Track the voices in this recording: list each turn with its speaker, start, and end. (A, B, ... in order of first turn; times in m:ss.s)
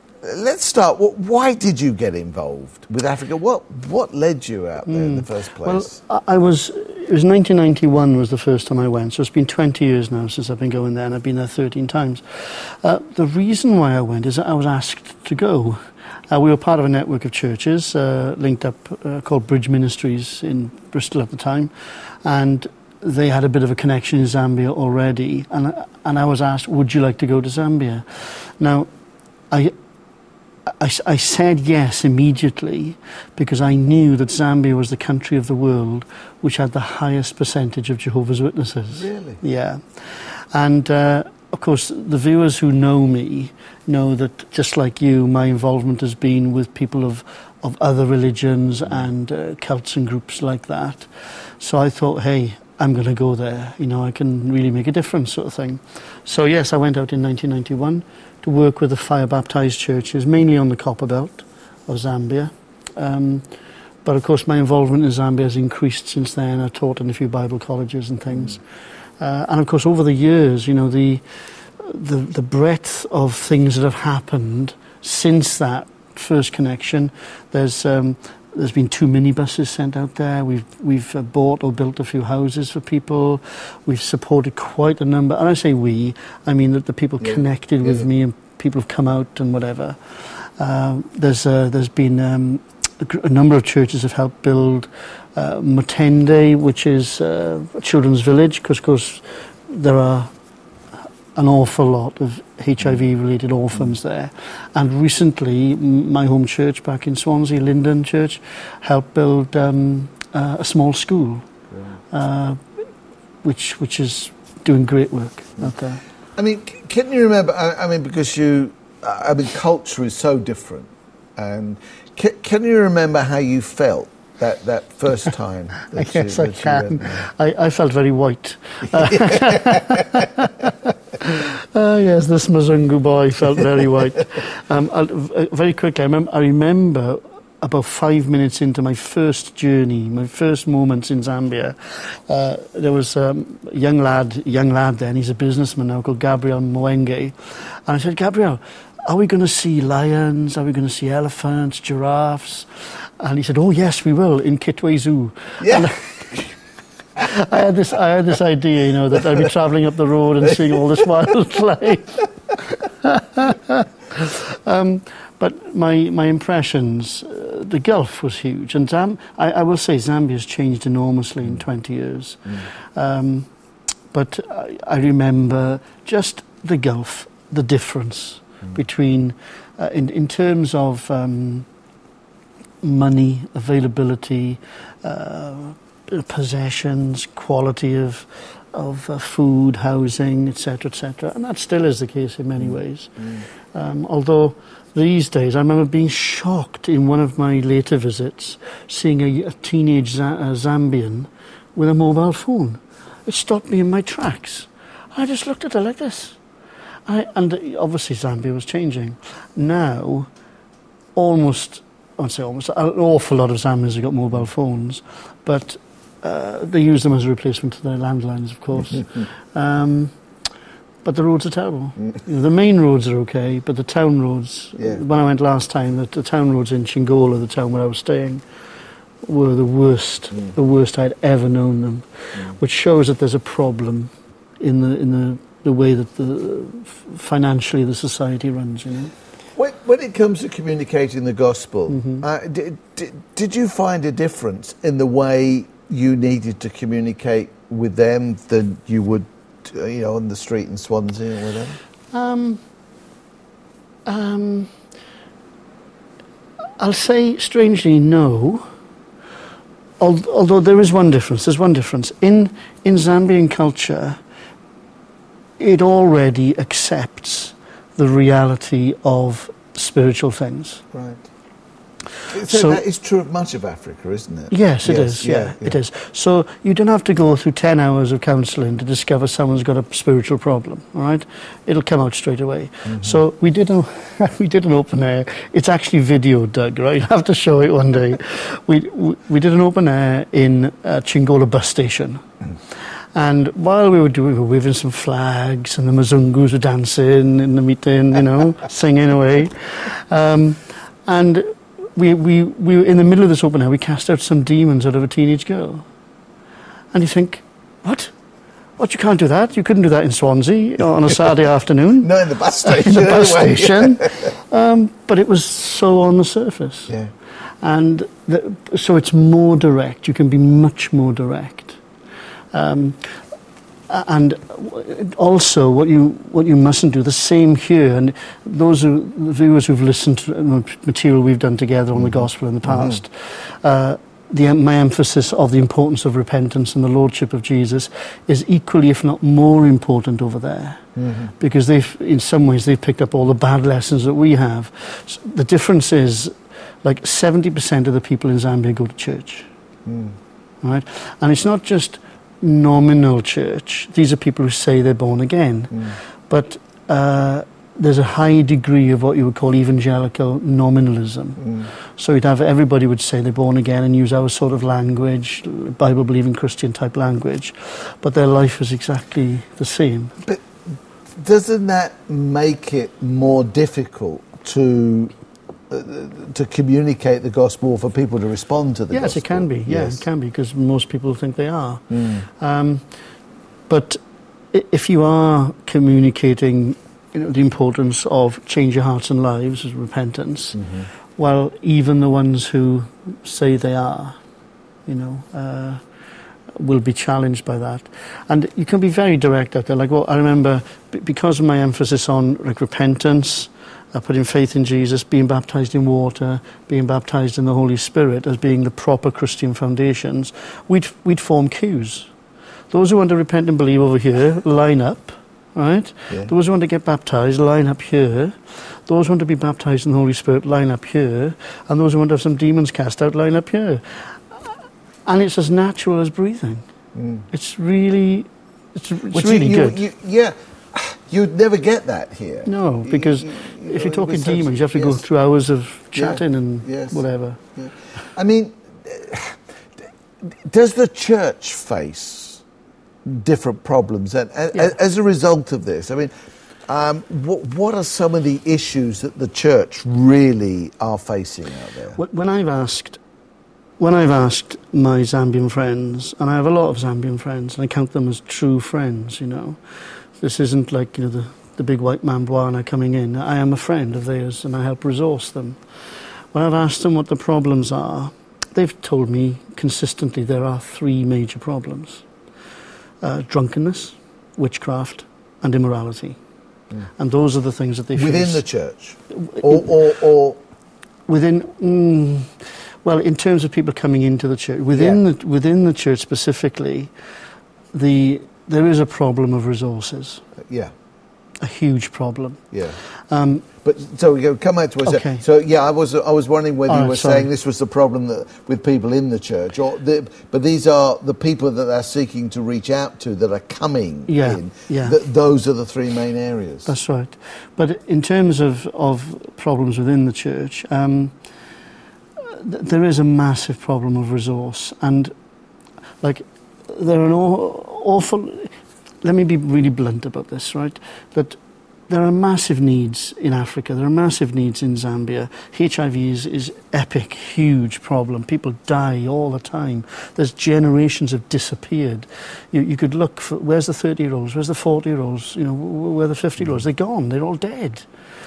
0:00.2-0:06.0 A
0:04.8-0:28.9 B
0:30.8-1:03.5 B
0:39.0-0:39.4 A
1:04.0-1:08.6 B
1:09.2-1:11.2 B
1:11.8-1:40.3 B
1:27.2-1:28.0 A
1:41.3-1:51.4 B
1:52.1-1:52.6 B
1:53.4-1:56.0 B
1:56.4-2:07.2 A
2:05.8-2:36.5 B
2:08.9-2:10.2 A
2:35.6-2:36.0 A
2:37.2-2:53.5 B
2:54.1-3:01.7 B
3:02.8-3:26.4 B
3:27.1-3:30.3 B
3:31.1-3:40.1 B
3:41.0-3:48.4 B
3:49.2-3:59.1 B
3:59.6-4:11.8 A
4:01.9-4:02.2 B
4:12.1-4:12.6 B
4:14.0-4:14.7 B
4:16.8-4:18.7 B
4:20.0-4:24.2 B
4:25.6-4:30.8 B
4:30.9-4:31.2 A
4:32.3-4:32.8 B
4:32.3-4:35.8 A
4:34.5-4:52.2 B
4:42.9-4:43.2 A
4:53.1-5:05.9 B
5:06.9-5:08.1 B
5:08.8-5:16.9 B
5:12.0-5:14.2 A
5:17.6-5:21.8 B
5:22.5-5:23.2 B
5:23.9-5:40.8 B
5:32.0-5:33.0 A
5:41.0-5:41.3 A
5:41.4-5:46.3 B
5:46.8-5:49.5 B
5:49.8-5:50.2 A
5:50.6-6:10.1 B
6:11.2-6:15.1 A
6:15.7-6:20.0 A
6:18.9-6:22.9 B
6:21.9-6:22.2 A
6:23.7-6:24.0 B
6:24.5-6:30.6 B
6:30.6-6:30.9 A
6:31.2-6:34.2 B
6:34.8-6:35.8 B
6:36.6-6:52.1 B
6:52.7-7:04.5 B
7:05.0-7:06.6 B
7:06.9-7:07.2 A
7:07.3-7:09.8 B
7:09.1-7:15.0 A
7:12.4-7:17.4 B
7:15.9-7:17.0 A
7:17.6-7:22.4 A
7:23.0-7:26.1 A
7:26.7-7:32.0 A
7:32.0-7:33.0 B
7:33.8-7:39.6 B
7:40.1-7:45.6 B
7:46.3-7:52.0 B
7:53.0-7:56.2 B
7:57.0-7:58.4 B
7:58.0-8:00.4 A
7:59.1-7:59.6 B
8:01.1-8:06.9 B
8:04.7-8:05.0 A
8:07.7-8:10.2 B
8:10.4-8:10.7 A
8:11.4-8:13.5 B
8:12.5-8:12.8 A
8:13.6-8:26.7 A
8:14.8-8:15.2 B
8:16.7-8:17.3 B
8:24.1-8:25.0 B
8:26.6-8:31.2 B
8:32.2-8:35.1 B
8:36.0-8:41.4 B
8:41.9-8:57.9 B